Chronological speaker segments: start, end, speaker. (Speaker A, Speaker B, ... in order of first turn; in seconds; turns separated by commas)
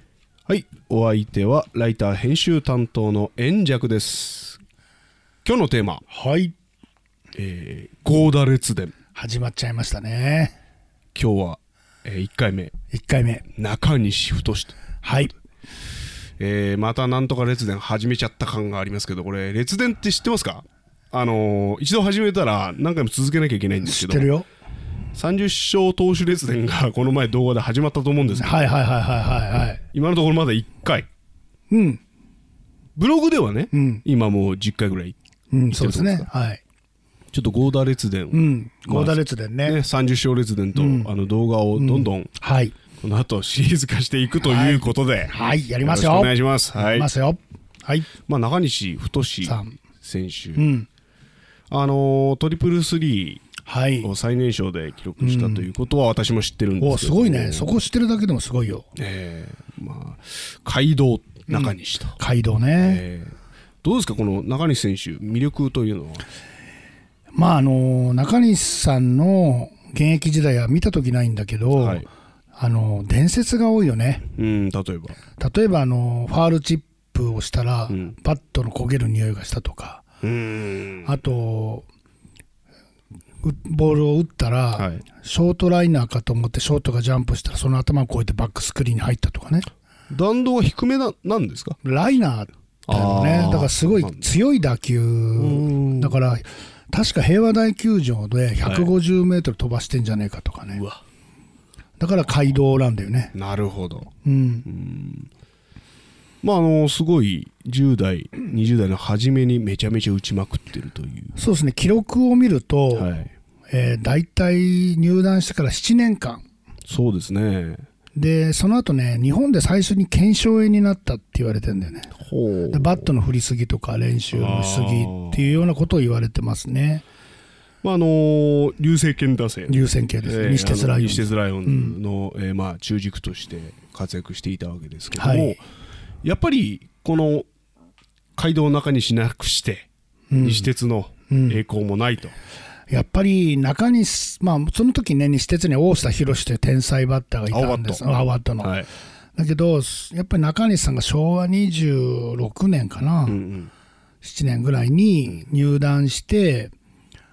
Speaker A: 0.5-4.6, Speaker A: 5.4-6.0, Speaker B: 6.1-6.5, Speaker A: 7.3-8.9, Speaker B: 9.2-10.5, Speaker A: 11.1-12.7, Speaker B: 12.9-13.4, Speaker A: 13.6-14.8, Speaker B: 15.0-15.3, Speaker A: 16.4-24.3, Speaker B: 23.8-24.5, Speaker A: 25.1-28.7, Speaker B: 28.3-29.8, Speaker A: 29.9-31.1, Speaker B: 31.7-32.0, Speaker A: 33.0-35.2, Speaker B: 33.7-34.0, Speaker B: 35.5-36.6, Speaker A: 35.7-36.3, Speaker A: 37.3-42.3, Speaker B: 38.3-39.8, Speaker B: 40.8-41.1, Speaker B: 41.8-42.8, Speaker A: 43.0-47.1, Speaker B: 44.4-48.1, Speaker A: 48.3-50.7, Speaker B: 49.4-49.8, Speaker B: 50.6-50.9, Speaker A: 51.7-53.5, Speaker B: 53.6-54.1, Speaker A: 54.0-57.7, Speaker B: 55.2-55.7, Speaker B: 56.8-58.9, Speaker A: 59.0-62.2, Speaker B: 61.5-63.0, Speaker A: 62.8-66.2, Speaker B: 67.3-74.3, Speaker A: 71.7-72.0, Speaker A: 74.3-75.2, Speaker B: 75.4-80.0, Speaker A: 80.2-81.2, Speaker B: 81.0-81.9, Speaker B: 83.4-89.7, Speaker A: 84.8-85.0, Speaker A: 90.1-91.8, Speaker B: 91.8-100.8, Speaker A: 92.9-94.3, Speaker A: 95.4-96.2, Speaker A: 98.6-98.9, Speaker A: 100.7-101.0, Speaker B: 102.0-103.3, Speaker A: 103.3-104.1, Speaker B: 104.2-104.7, Speaker A: 104.7-105.3, Speaker A: 106.4-111.4, Speaker B: 111.4-113.1, Speaker A: 113.0-113.3, Speaker B: 113.7-116.4, Speaker A: 116.9-117.8, Speaker B: 118.1-122.1, Speaker A: 122.2-123.1, Speaker B: 122.7-127.0, Speaker A: 124.3-125.6, Speaker A: 127.8-135.6, Speaker B: 129.7-131.9, Speaker B: 135.2-135.6, Speaker A: 136.2-137.5, Speaker A: 138.4-142.3, Speaker B: 140.3-140.7, Speaker B: 141.3-141.6, Speaker B: 142.9-148.8, Speaker A: 147.5-148.1, Speaker A: 148.6-148.9, Speaker B: 149.4-153.4, Speaker A: 153.3-153.7, Speaker B: 154.2-156.7